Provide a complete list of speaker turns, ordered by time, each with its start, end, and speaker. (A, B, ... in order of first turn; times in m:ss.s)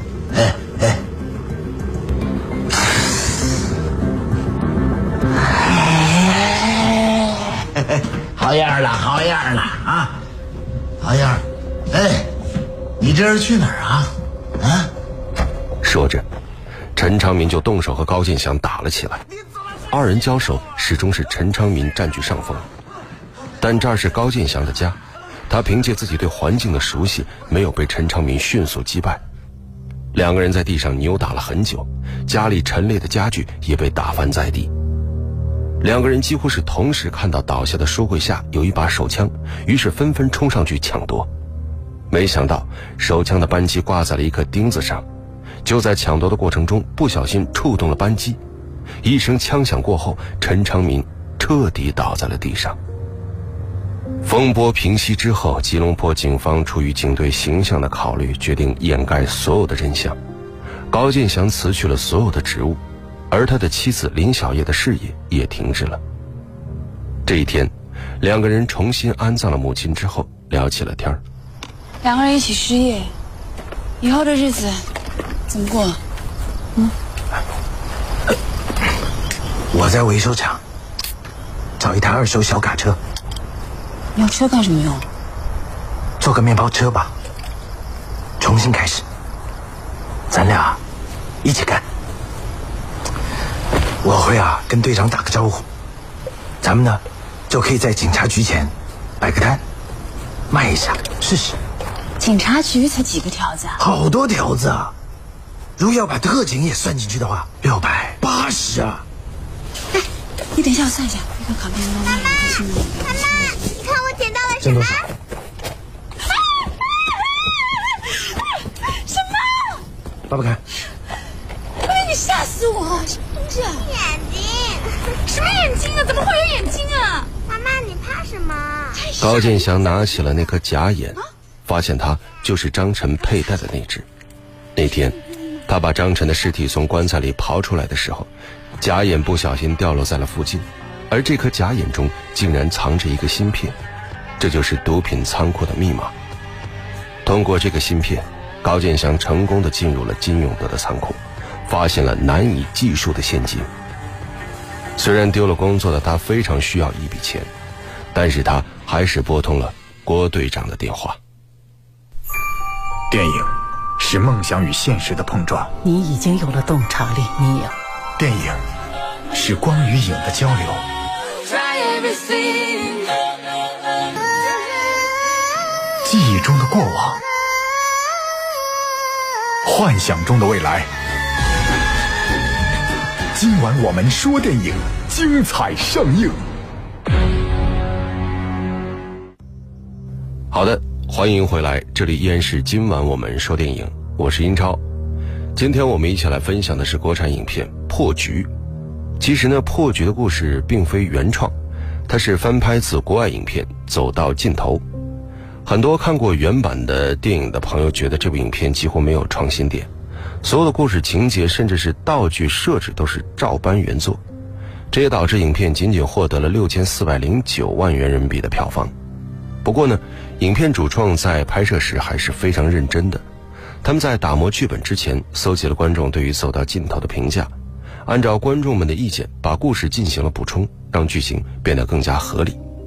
0:00.3-0:01.0 A
0:05.5-0:10.2 A
0:11.0-0:12.3 A
0:13.0-0:14.9 A
0:15.8-0:16.2 B
0:17.0-0:19.2 B
0:19.9-0:22.7 B
0:23.6-0:25.0 B
0:25.5-0:29.2 B
0:30.1-0:34.7 B
0:35.8-0:41.3 B
0:42.1-0:45.0 B
0:45.6-0:48.4 B
0:49.0-0:52.8 B
0:54.2-1:00.2 B
1:00.9-1:06.0 B
1:07.2-1:11.2 B
1:12.0-1:13.1 C
1:14.0-1:14.8 C
1:15.5-1:16.0 C
1:19.7-1:20.6 D
1:21.8-1:23.0 D
1:24.1-1:25.0 C
1:26.2-1:27.1 D
1:28.4-1:29.0 D
1:30.3-1:30.8 D
1:31.4-1:31.8 D
1:34.0-1:35.6 D
1:36.6-1:39.6 D
1:40.5-1:41.6 D
1:42.2-1:43.8 C
1:43.8-1:44.9 D
1:45.8-1:49.0 D
1:50.5-1:53.7 C
1:53.2-1:55.1 E
1:54.6-1:55.0 D
1:59.0-1:59.8 C
2:00.3-2:00.6 D
2:01.8-2:03.9 C
2:03.8-2:05.0 E
2:05.3-2:07.3 C
2:07.5-2:09.1 E
2:08.9-2:09.7 C
2:09.2-2:14.1 B
2:14.8-2:18.3 B
2:18.8-2:23.8 B
2:24.4-2:26.1 B
2:27.2-2:33.7 B
2:35.0-2:37.5 B
2:38.1-2:41.2 B
2:43.1-2:45.7 F
2:45.8-2:47.7 G
2:48.2-2:48.6 F
2:49.3-2:50.9 F
2:51.6-2:53.0 G
2:56.0-2:57.2 F
2:59.6-3:00.9 F
3:03.3-3:06.5 F
3:10.5-3:14.8 B
3:15.6-3:18.5 B
3:19.2-3:21.5 B
3:22.1-3:24.8 B
3:25.6-3:29.9 B
3:30.4-3:34.2 B
3:34.9-3:38.9 B
3:39.6-3:43.2 B
3:43.8-3:47.5 B
3:48.0-3:52.6 B